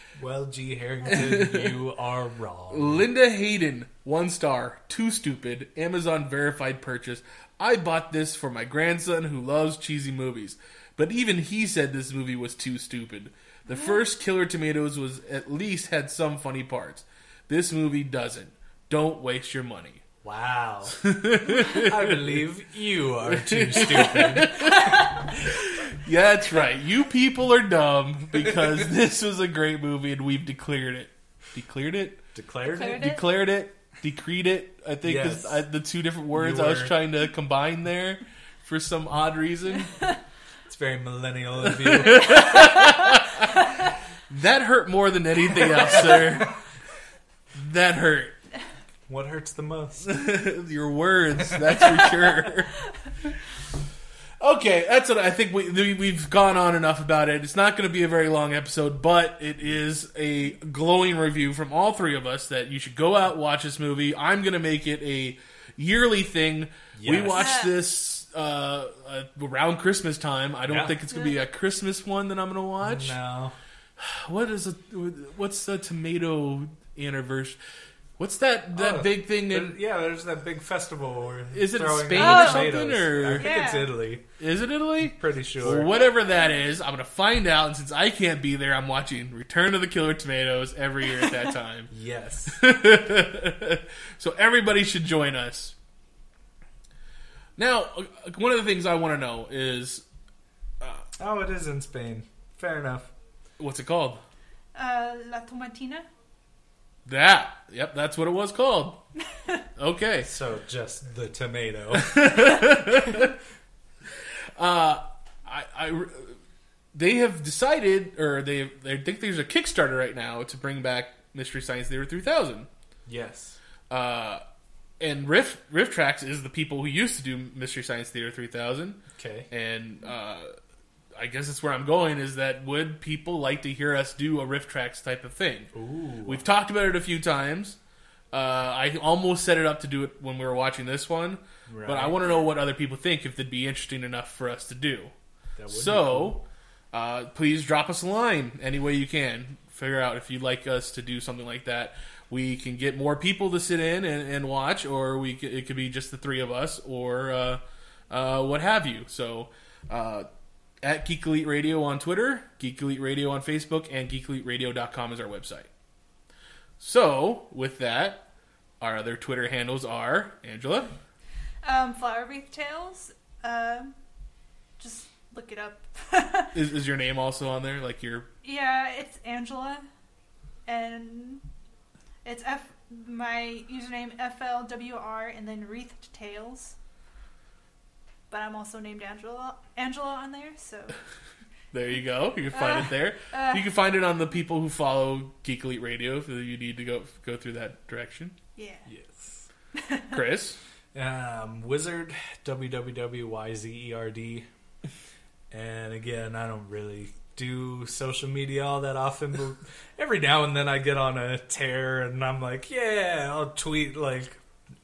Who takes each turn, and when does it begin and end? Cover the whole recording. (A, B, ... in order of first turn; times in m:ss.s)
0:00.2-0:03.1 A
0:01.1-0:01.8 B
0:02.7-0:20.0 B
0:20.2-0:21.0 A
0:21.0-0:22.4 B
0:21.6-0:24.6 A
0:23.2-0:32.2 B
0:32.3-0:33.1 A
0:32.7-0:33.2 C
0:32.9-0:39.9 B
0:35.0-0:35.7 A
0:36.3-0:37.0 A
0:40.7-0:42.4 A
0:41.8-0:43.4 B
0:42.4-0:43.1 C
0:44.3-0:46.6 B
0:47.5-0:48.4 B
0:49.1-0:50.1 A
0:50.1-0:52.8 B
0:54.4-1:13.2 B
1:07.0-1:07.5 A
1:07.3-1:07.8 C
1:10.7-1:11.0 A
1:12.8-1:13.6 A
1:14.0-1:17.6 B
1:18.2-1:19.8 B
1:18.7-1:24.2 A
1:21.5-1:23.5 B
1:22.1-1:24.0 C
1:24.4-1:31.9 B
1:25.0-1:25.9 A
1:31.9-1:32.6 A
1:32.5-1:35.8 B
1:37.6-1:40.0 B
1:41.2-1:43.1 A
1:43.6-1:44.2 B
1:44.8-1:46.1 C
1:47.1-1:49.0 B
1:49.8-1:50.3 B
1:50.2-1:52.3 A
1:51.9-1:53.3 B
1:54.6-1:56.4 B
1:56.9-2:02.7 B
2:03.1-2:03.6 A
2:03.9-2:04.4 B
2:05.0-2:10.5 B
2:09.2-2:09.5 A
2:11.2-2:15.7 B
2:15.7-2:16.4 A
2:16.2-2:17.8 B
2:18.3-2:25.1 B
2:21.7-2:22.2 A
2:25.6-2:26.4 A
2:25.7-2:40.3 B
2:40.8-2:45.7 B
2:46.8-2:48.3 B
2:48.8-2:50.9 B
2:51.6-2:54.0 C
2:54.8-2:56.5 C
2:56.5-2:58.3 B
2:58.4-2:59.8 C
3:00.7-3:01.4 C
3:02.2-3:06.8 C
3:08.3-3:11.0 C
3:11.7-3:18.4 B
3:12.5-3:13.6 C
3:18.6-3:18.9 C
3:18.9-3:19.4 A
3:19.8-3:20.2 C
3:20.1-3:20.6 B
3:20.9-3:24.5 A
3:25.5-3:34.4 A